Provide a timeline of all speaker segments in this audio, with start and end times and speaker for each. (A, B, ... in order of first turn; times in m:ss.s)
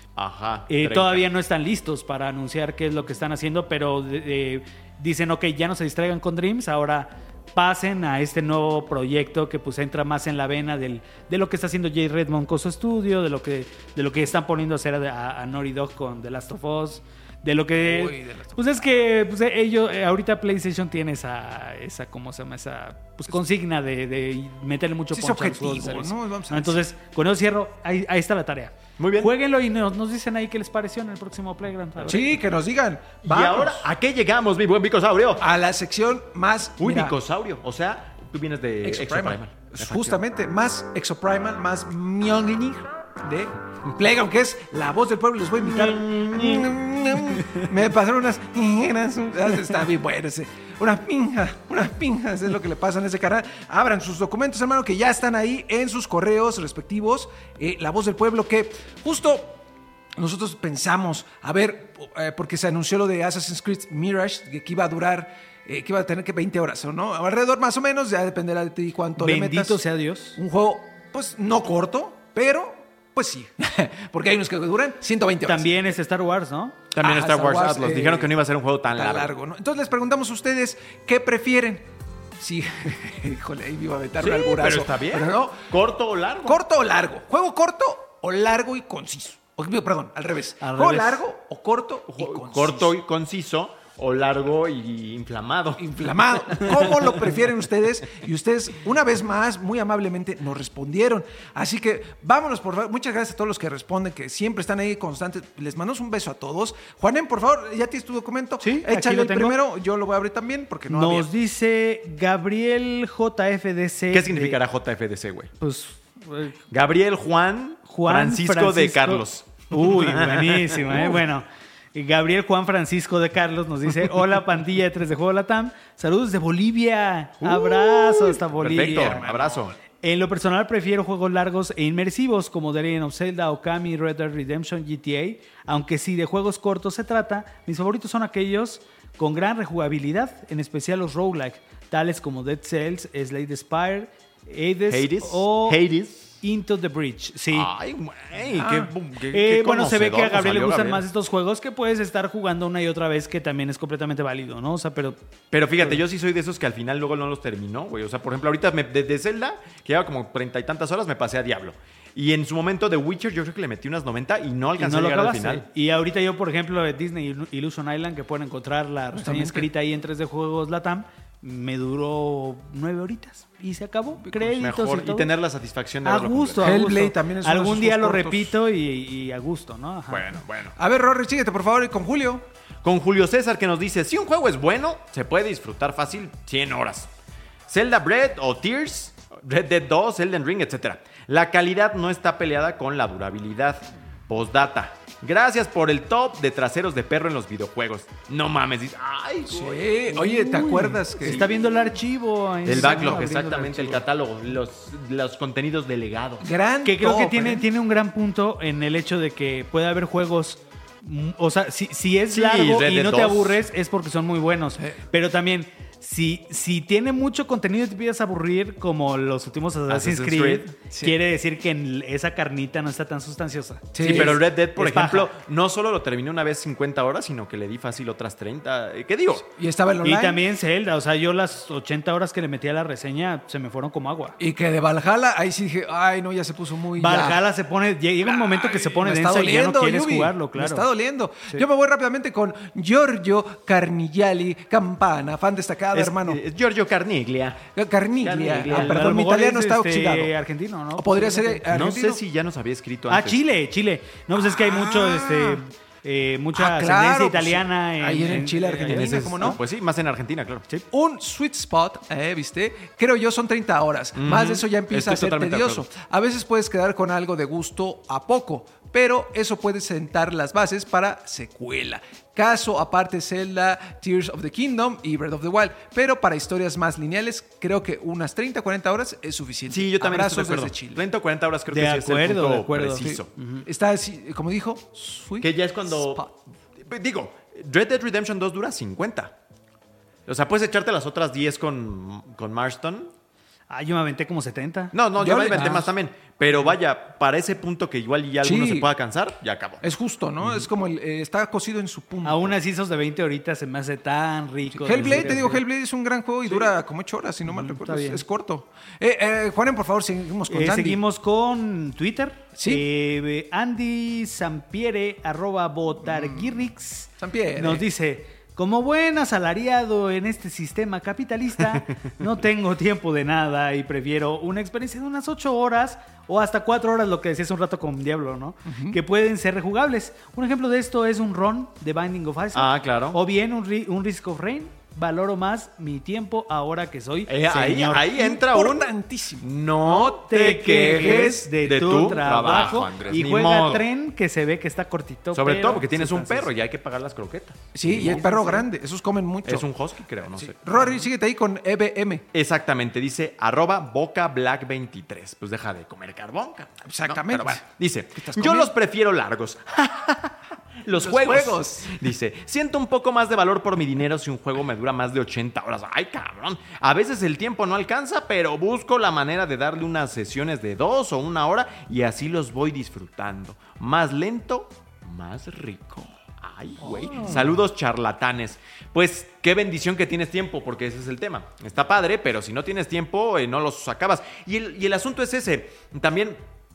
0:00.2-0:01.3 A
0:00.7-0:32.3 B
0:17.8-0:18.9 C
0:25.1-0:26.8 C
0:29.0-0:29.3 A
0:32.0-0:32.3 A
0:32.1-0:33.9 C
0:33.2-0:35.5 A
0:35.4-0:37.1 C
0:36.8-0:40.2 A
0:38.8-0:59.6 C
0:45.7-0:46.8 B
0:45.8-0:46.6 A
1:00.2-1:09.8 C
1:09.2-1:10.4 B
1:10.4-1:15.8 C
1:15.5-1:16.8 B
1:16.9-1:19.3 A
1:17.0-1:18.4 C
1:18.9-1:21.9 C
1:22.4-1:25.7 C
1:24.2-1:26.6 A
1:26.4-1:33.0 C
1:30.6-1:31.2 B
1:32.1-1:35.8 A
1:35.8-1:51.3 C
1:48.6-1:49.6 B
1:50.9-1:54.6 B
1:54.1-1:55.5 A
1:55.6-1:56.6 B
1:56.7-2:01.2 A
1:57.9-2:09.2 B
2:07.4-2:09.8 A
2:08.7-2:09.6 C
2:10.0-2:25.8 B
2:24.9-2:26.3 A
2:26.4-2:27.7 B
2:27.5-2:31.0 A
2:28.6-2:28.9 C
2:29.3-2:35.2 B
2:35.5-2:45.7 A
2:44.8-2:55.3 B
2:49.2-2:49.7 C
2:54.2-2:54.5 C
2:54.6-2:56.8 A
2:56.0-3:00.2 B
2:56.6-2:58.6 C
3:00.1-3:00.8 A
3:00.8-3:02.4 C
3:02.8-3:07.1 A
3:07.7-3:19.9 A
3:19.5-3:21.5 C
3:20.1-3:24.0 B
3:22.6-3:26.5 A
3:26.4-3:27.7 C
3:26.8-3:45.3 B
3:32.3-3:33.6 A
3:39.9-3:40.7 A
3:43.9-3:44.4 C
3:44.0-3:49.5 A
3:49.6-3:50.4 C
3:50.0-3:54.4 B
3:54.4-3:57.5 C
3:57.0-4:00.9 B
3:58.2-4:06.4 C
4:05.9-4:09.0 A
4:07.8-4:10.3 C
4:08.7-4:11.6 B
4:11.0-4:12.2 C
4:11.7-4:13.4 A
4:13.1-4:19.5 B
4:14.4-4:15.6 C
4:16.6-4:19.6 C
4:18.8-4:20.6 A
4:20.9-4:41.0 C
4:24.2-4:25.9 A
4:39.7-4:43.3 A
4:41.7-4:43.6 B
4:43.0-4:46.3 C
4:45.4-4:46.3 A
4:46.8-4:49.4 A
4:50.3-4:53.1 A
4:53.7-4:55.0 B
4:54.9-4:59.8 A
4:55.2-4:55.9 C
4:55.5-4:55.8 B
4:58.4-4:58.9 C
4:59.8-5:02.5 C
5:02.2-5:05.6 B
5:04.7-5:11.0 C
5:07.5-5:08.2 B
5:10.5-5:38.0 B
5:12.6-5:12.8 C
5:16.1-5:16.6 C
5:17.2-5:17.8 C
5:28.7-5:29.0 C
5:32.5-5:33.2 A
5:37.3-5:43.8 A
5:37.9-5:39.5 C
5:39.8-5:46.5 B
5:40.7-5:41.5 C
5:45.3-5:48.4 A
5:47.7-5:49.7 C
5:47.9-5:48.6 B
5:49.4-5:50.9 A
5:50.3-5:52.3 C
5:52.3-6:26.4 A
5:56.9-5:57.6 C
5:58.2-5:58.7 C
6:00.9-6:02.0 C
6:17.0-6:17.4 C